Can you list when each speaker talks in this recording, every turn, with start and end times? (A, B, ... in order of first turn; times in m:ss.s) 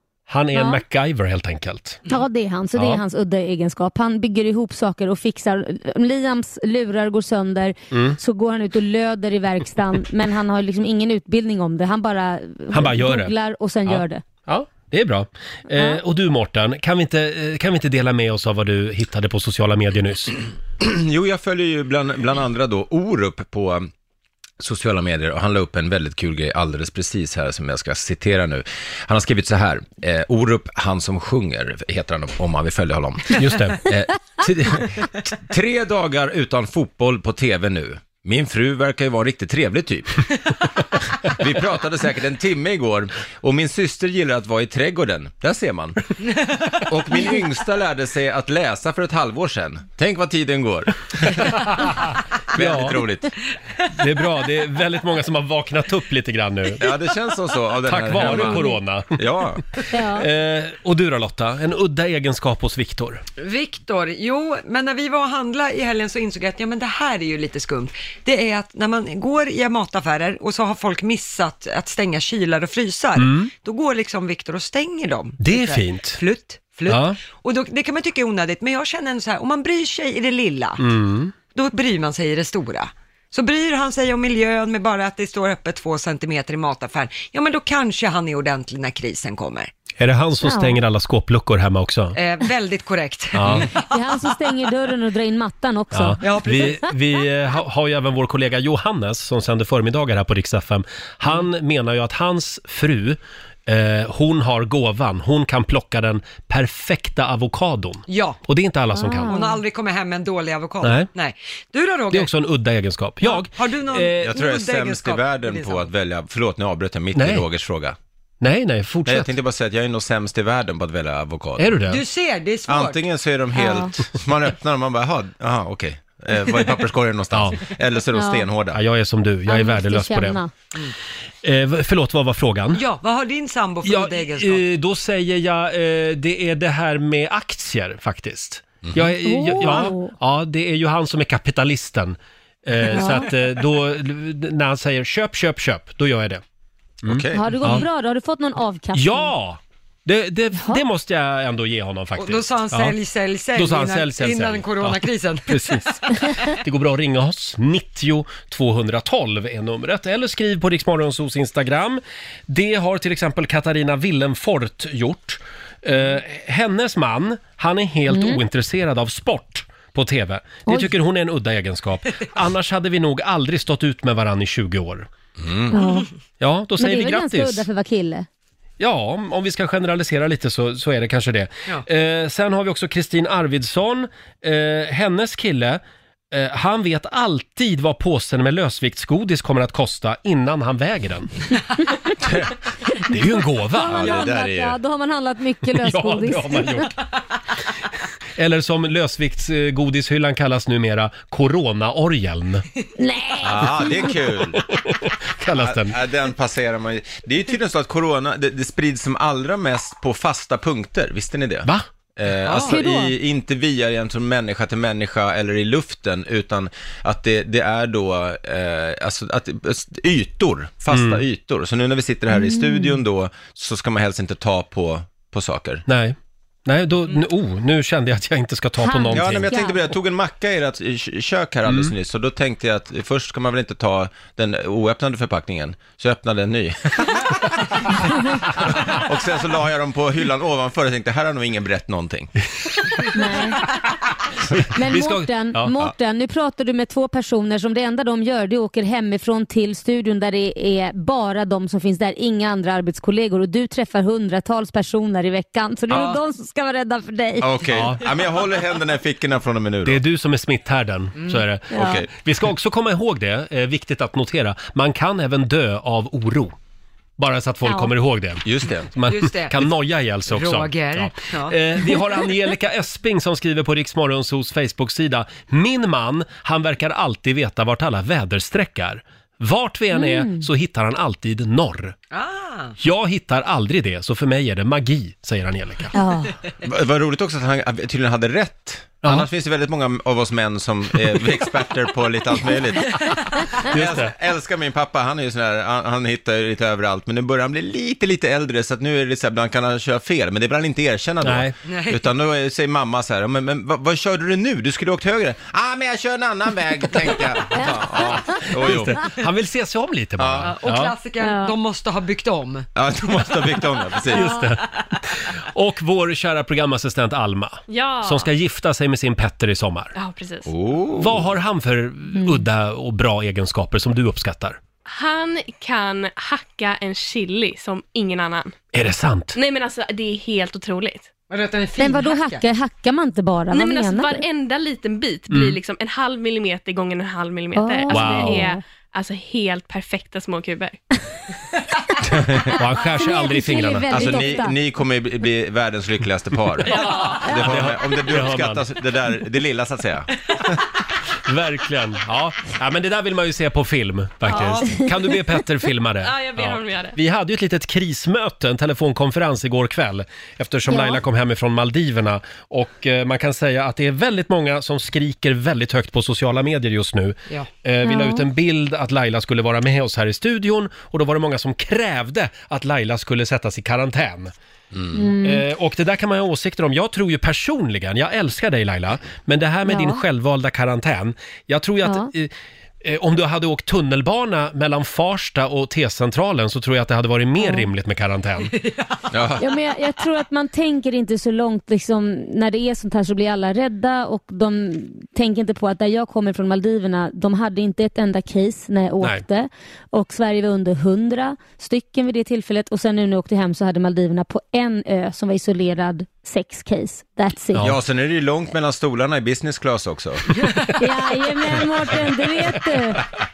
0:00.3-0:02.0 A
0:00.5-0:00.8 B
0:02.1-0:14.2 B
0:02.8-0:03.0 A
0:07.9-0:08.2 A
0:12.7-0:13.3 A
0:13.8-0:20.3 A
0:15.7-0:16.0 B
0:20.8-0:23.9 C
0:24.6-0:40.3 C
0:33.4-0:33.8 A
0:41.2-0:46.1 C
0:46.7-0:51.9 C
0:51.6-0:53.0 A
0:52.5-0:53.3 C
0:53.9-0:56.9 A
0:56.8-0:59.6 C
0:57.8-0:59.1 A
0:58.2-0:58.8 B
0:59.8-1:03.2 A
0:59.9-1:00.3 B
1:03.4-1:20.8 D
1:13.2-1:13.5 A
1:15.4-1:16.2 A
1:16.9-1:17.2 A
1:20.8-1:21.3 A
1:21.5-1:29.7 D
1:30.0-1:32.2 A
1:30.4-1:30.8 B
1:32.1-1:34.3 D
1:33.3-1:33.7 A
1:33.9-1:36.7 B
1:35.9-1:49.3 A
1:36.2-1:36.8 D
1:48.1-1:48.4 D
1:48.9-1:49.6 B
1:49.3-1:52.3 D
1:50.8-1:51.1 A
1:52.1-1:54.3 A
1:53.2-1:55.9 D
1:54.2-1:58.0 C
1:57.1-1:57.4 A
1:58.4-1:59.3 A
1:59.0-2:01.8 C
2:01.6-2:02.0 A
2:01.9-2:03.0 D
2:02.7-2:08.8 C
2:03.6-2:03.9 B
2:07.3-2:07.6 A
2:08.1-2:08.5 B
2:08.7-2:10.4 A
2:09.5-2:10.5 B
2:11.4-2:12.8 A
2:12.7-2:14.6 D
2:13.8-2:26.4 A
2:18.8-2:19.1 C
2:19.2-2:20.1 B
2:22.9-2:23.3 B
2:27.0-2:27.8 C
2:27.0-2:27.8 A
2:27.3-2:29.3 B
2:28.9-2:33.0 A
2:32.2-2:36.2 D
2:33.5-2:55.1 A
2:48.1-2:48.4 B
2:50.7-2:50.9 B
2:55.4-2:55.8 C
2:55.7-2:56.1 B
2:56.4-2:57.7 A
2:56.8-2:58.3 B
2:58.8-3:11.3 A
3:12.2-3:12.6 C
3:13.1-3:14.2 A
3:13.7-3:16.9 B
3:13.9-3:14.8 C
3:15.7-3:16.9 A
3:18.4-3:22.6 A
3:23.0-3:24.1 B
3:23.4-3:24.6 C
3:24.6-3:26.0 A
3:25.5-3:45.8 C
3:32.4-3:32.8 D
3:32.7-3:33.1 B
3:40.9-3:41.2 A
3:42.3-3:43.0 B
3:45.9-3:49.5 A
3:48.8-3:49.8 B
3:49.1-4:02.3 C
3:51.7-3:51.9 A
4:03.1-4:03.7 B
4:04.5-4:05.8 A
4:04.7-4:17.6 B
4:17.4-4:20.0 C
4:17.7-4:18.0 A
4:19.8-4:26.5 A
4:21.7-4:22.0 B
4:21.7-4:22.1 C
4:27.2-4:42.0 A
4:27.6-4:27.9 B
4:28.4-4:28.9 C
4:29.0-4:29.7 D
4:30.3-4:32.0 D
4:39.9-4:40.4 B
4:42.1-4:42.7 D
4:42.8-4:45.9 A
4:45.9-4:46.4 B
4:46.6-5:09.1 C
4:53.1-4:54.1 A
5:01.2-5:01.5 A
5:01.6-5:02.0 D
5:07.5-5:07.9 B
5:08.3-5:10.9 A
5:10.2-5:10.5 C
5:10.4-5:12.7 D
5:11.2-5:11.5 B
5:12.8-5:14.5 C
5:14.1-5:19.9 A
5:17.7-5:18.3 E
5:19.9-5:20.5 E
5:20.4-5:21.3 C
5:21.0-5:24.6 A
5:22.2-5:22.4 B
5:24.8-5:28.6 E
5:28.7-5:29.4 A
5:29.3-5:31.1 E
5:31.3-5:32.4 D
5:31.8-5:34.2 B
5:33.5-5:40.8 E
5:35.3-5:35.6 A
5:37.6-5:38.6 B
5:37.9-5:38.5 A
5:42.0-5:42.6 C
5:42.5-5:44.3 A
5:42.9-5:44.5 B
5:43.9-5:50.6 C
5:46.6-5:48.6 A
5:46.8-5:47.2 E
5:51.2-6:14.3 A
5:54.3-5:54.6 E
5:56.0-5:57.0 E
6:00.7-6:01.0 B
6:07.8-6:08.2 B
6:14.7-6:15.1 C
6:14.9-6:15.4 B
6:15.2-6:22.3 A
6:19.7-6:20.0 B
6:21.8-6:22.1 B
6:22.8-6:28.5 A
6:27.4-6:27.7 B
6:28.5-6:29.1 D
6:29.1-6:29.5 C
6:29.4-6:47.7 B
6:47.6-6:50.4 C
6:50.8-6:53.0 B